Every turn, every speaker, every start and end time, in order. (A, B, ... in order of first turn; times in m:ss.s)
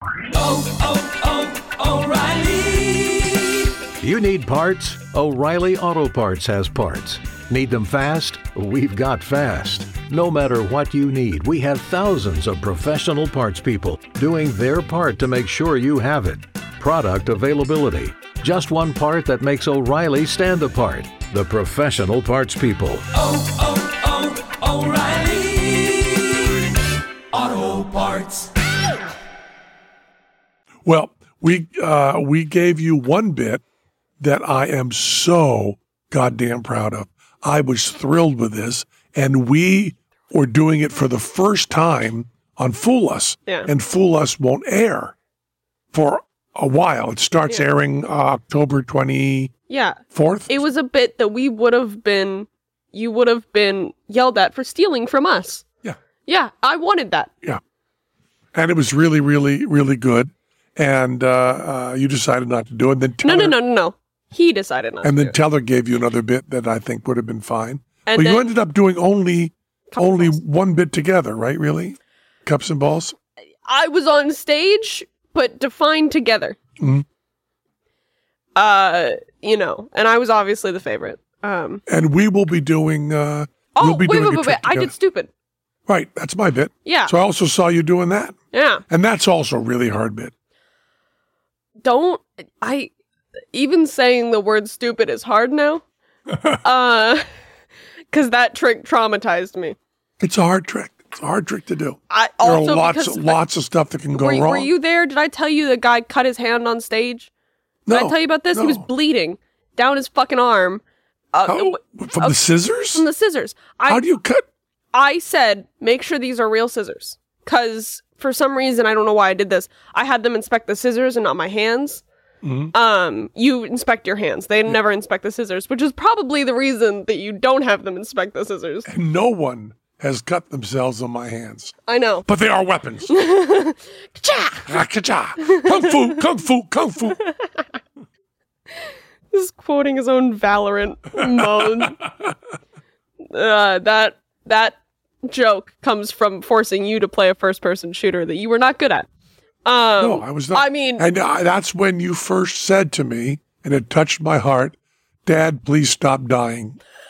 0:00.3-0:26.6 A
0:27.3-0:28.5 A
0:30.8-0:33.6 B
0:34.2-0:45.1 B
0:45.9-0:49.5 B
0:49.7-0:55.6 C
0:50.1-0:50.6 B
0:56.2-0:57.3 C
0:58.5-1:03.6 B
1:03.2-1:05.4 C
1:05.0-1:13.1 B
1:08.1-1:08.5 C
1:09.9-1:10.3 C
1:13.7-1:16.6 C
1:16.8-1:17.0 B
1:18.6-1:21.8 C
1:21.9-1:24.9 B
1:23.7-1:25.3 C
1:25.9-1:28.4 B
1:26.8-1:27.1 C
1:28.5-1:28.8 C
1:28.9-1:30.3 B
1:31.8-1:32.9 C
1:33.5-1:35.8 C
1:36.6-1:37.2 C
1:38.1-1:39.8 C
1:40.2-1:44.7 B
1:42.1-1:43.4 C
1:44.1-1:47.3 C
1:47.9-1:48.8 B
1:47.9-1:50.8 C
1:51.3-1:52.4 C
1:51.4-1:53.0 B
1:52.9-1:54.0 C
1:53.9-1:54.4 B
1:54.9-2:02.0 C
2:02.4-2:02.7 B
2:02.7-2:08.9 C
2:08.9-2:11.7 B
2:11.9-2:12.2 C
2:12.2-2:13.1 B
2:13.1-2:14.8 C
2:14.7-2:17.2 B
2:15.4-2:15.9 C
2:18.8-2:22.0 C
2:21.2-2:22.3 B
2:23.3-2:29.1 C
2:29.6-2:31.0 C
2:30.0-2:36.8 B